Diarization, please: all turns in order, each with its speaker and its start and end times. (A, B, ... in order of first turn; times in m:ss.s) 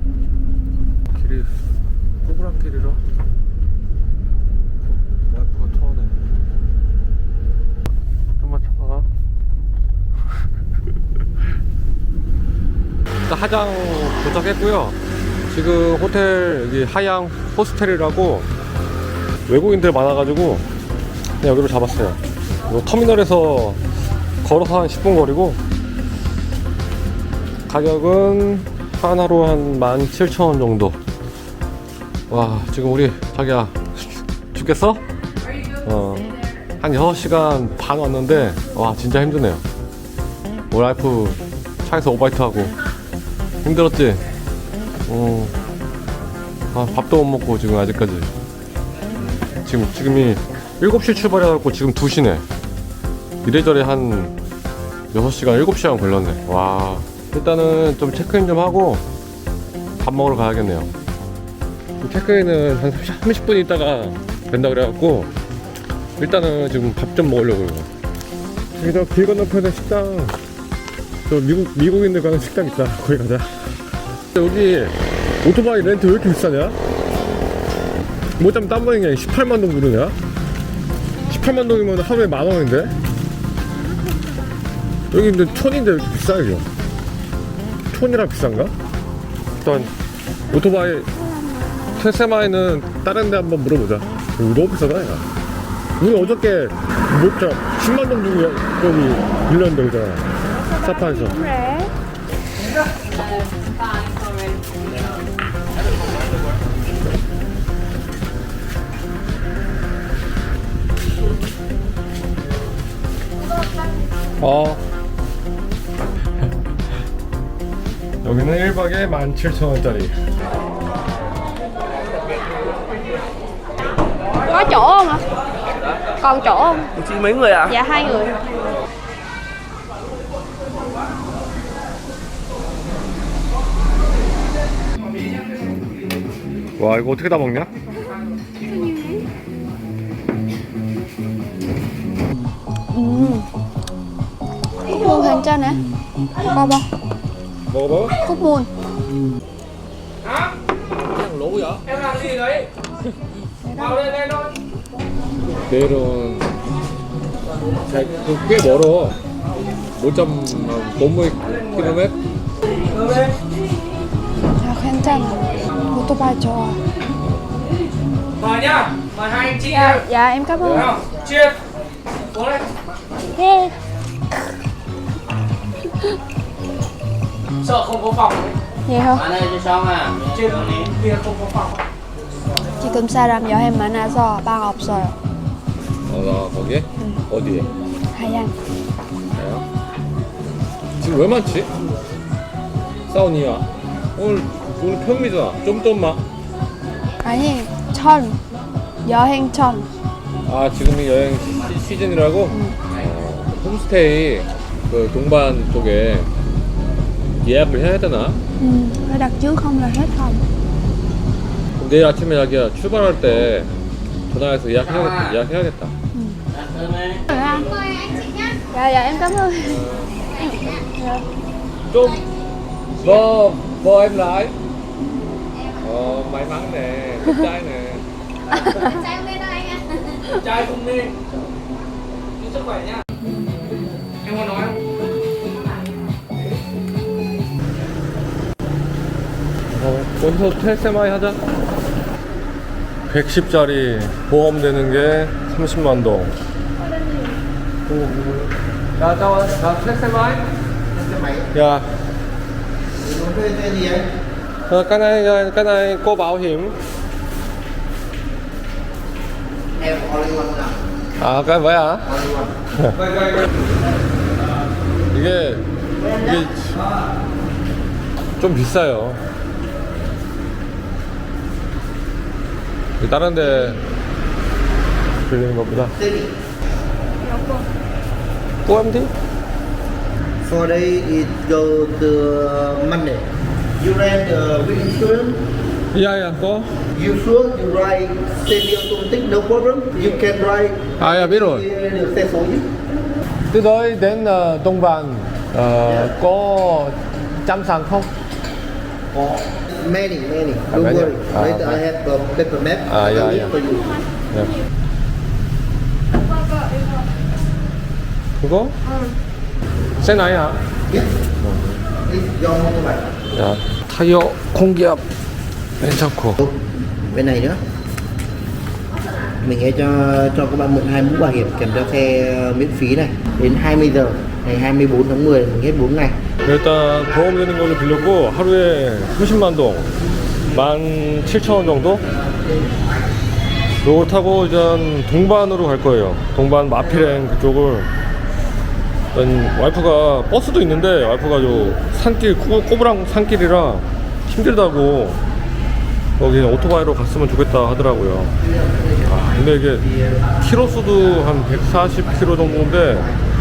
0:01.1-0:01.5 A
0:02.2-0:03.0 A
0:05.3-0:06.2 A
0:08.4-0:09.1 A
0:13.3-0:15.0 A
0:15.5-0:18.5 A
0:19.5-0:20.6 A
0:21.4-0:23.8 A
0:24.4-0:25.6 A
0:27.7-0:31.0 A
0:32.3-0:35.0 A
0:35.8-0:39.6 A
0:40.7-0:42.7 A
0:43.6-0:44.2 A
0:45.1-0:45.5 A
0:46.7-0:48.3 A
0:49.6-0:52.4 A
0:53.4-0:54.3 A
0:55.1-0:59.0 A
1:00.0-1:00.9 A
1:02.0-1:05.3 A
1:06.2-1:07.9 A
1:08.7-1:10.3 A
1:11.3-1:13.5 A
1:14.3-1:16.8 A
1:18.4-1:20.1 A
1:21.3-1:22.9 A
1:25.1-1:26.6 A
1:27.9-1:28.7 A
1:29.6-1:29.9 A
1:30.5-1:31.1 A
1:31.2-1:31.9 B
1:32.0-1:35.2 A
1:36.0-1:41.4 A
1:40.6-1:41.9 B
1:54.4-1:54.8 A
1:58.2-2:00.1 A
2:04.4-2:05.2 B
2:06.2-2:06.9 B
2:07.7-2:08.4 B
2:16.8-2:17.7 A
2:18.8-2:19.1 B
2:22.9-2:23.5 B
2:24.9-2:25.8 B
2:26.4-2:26.9 B
2:27.7-2:28.2 A
2:28.2-2:28.7 B
2:31.2-2:31.8 A
2:32.0-2:32.6 C
2:33.6-2:34.2 B
2:35.7-2:36.5 A
2:37.8-2:39.2 A
2:40.0-2:42.2 A
2:44.6-2:46.8 B
2:47.2-2:47.5 A
2:48.4-2:49.7 C
2:49.6-2:50.9 B
2:50.6-2:51.0 A
2:50.9-2:51.5 C
2:53.3-2:53.7 B
2:57.6-2:58.5 C
2:58.8-2:59.3 B
2:59.1-3:00.9 D
3:01.1-3:01.6 C
3:02.8-3:05.2 B
3:06.1-3:07.7 A
3:08.1-3:08.5 B
3:09.3-3:09.6 A
3:11.0-3:11.7 A
3:13.1-3:16.2 A
3:17.2-3:18.4 B
3:19.0-3:19.9 B
3:20.4-3:26.3 A
3:22.5-3:22.8 B
3:27.4-3:28.4 A
3:28.6-3:30.4 B
3:31.8-3:33.7 A
3:34.3-3:35.9 A
3:34.8-3:35.4 D
3:36.5-3:37.6 D
3:37.3-3:37.7 B
3:38.7-3:41.2 B
3:39.7-3:40.2 A
3:41.9-3:42.2 A
3:43.0-3:44.5 A
3:45.8-3:48.0 A
3:48.7-3:49.1 B
3:50.6-3:51.1 C
3:54.3-3:54.6 C
3:59.7-4:01.4 A
4:03.1-4:06.3 A
4:07.9-4:10.5 A
4:10.9-4:11.5 E
4:11.5-4:11.9 A
4:13.0-4:14.1 E
4:14.7-4:16.8 A
4:19.8-4:20.8 E
4:21.2-4:22.1 A
4:22.0-4:22.6 E
4:22.8-4:23.1 A
4:25.1-4:26.8 A
4:28.4-4:29.2 A
4:33.0-4:33.8 A
4:35.3-4:35.9 A
4:35.7-4:36.3 E
4:38.6-4:39.1 A
4:40.4-4:43.2 E
4:43.8-4:45.4 E
4:45.9-4:46.8 A
4:46.9-4:52.7 E
4:51.0-4:51.7 A
4:53.5-4:58.1 A
4:55.9-4:56.1 E
4:59.1-5:04.0 E
5:00.7-5:01.8 A
5:02.9-5:03.6 A
5:04.3-5:04.6 A
5:08.4-5:08.7 A
5:10.0-5:10.6 A
5:11.4-5:11.8 A
5:12.0-5:13.0 E
5:13.3-5:15.0 A
5:15.8-5:16.4 A
5:17.1-5:17.6 E
5:19.4-5:26.2 E
5:26.4-5:29.9 A
5:30.5-5:32.0 A
5:33.8-5:37.9 A
5:39.1-5:45.2 A
5:46.2-5:48.3 A
5:49.1-5:49.8 A
5:50.4-5:53.1 A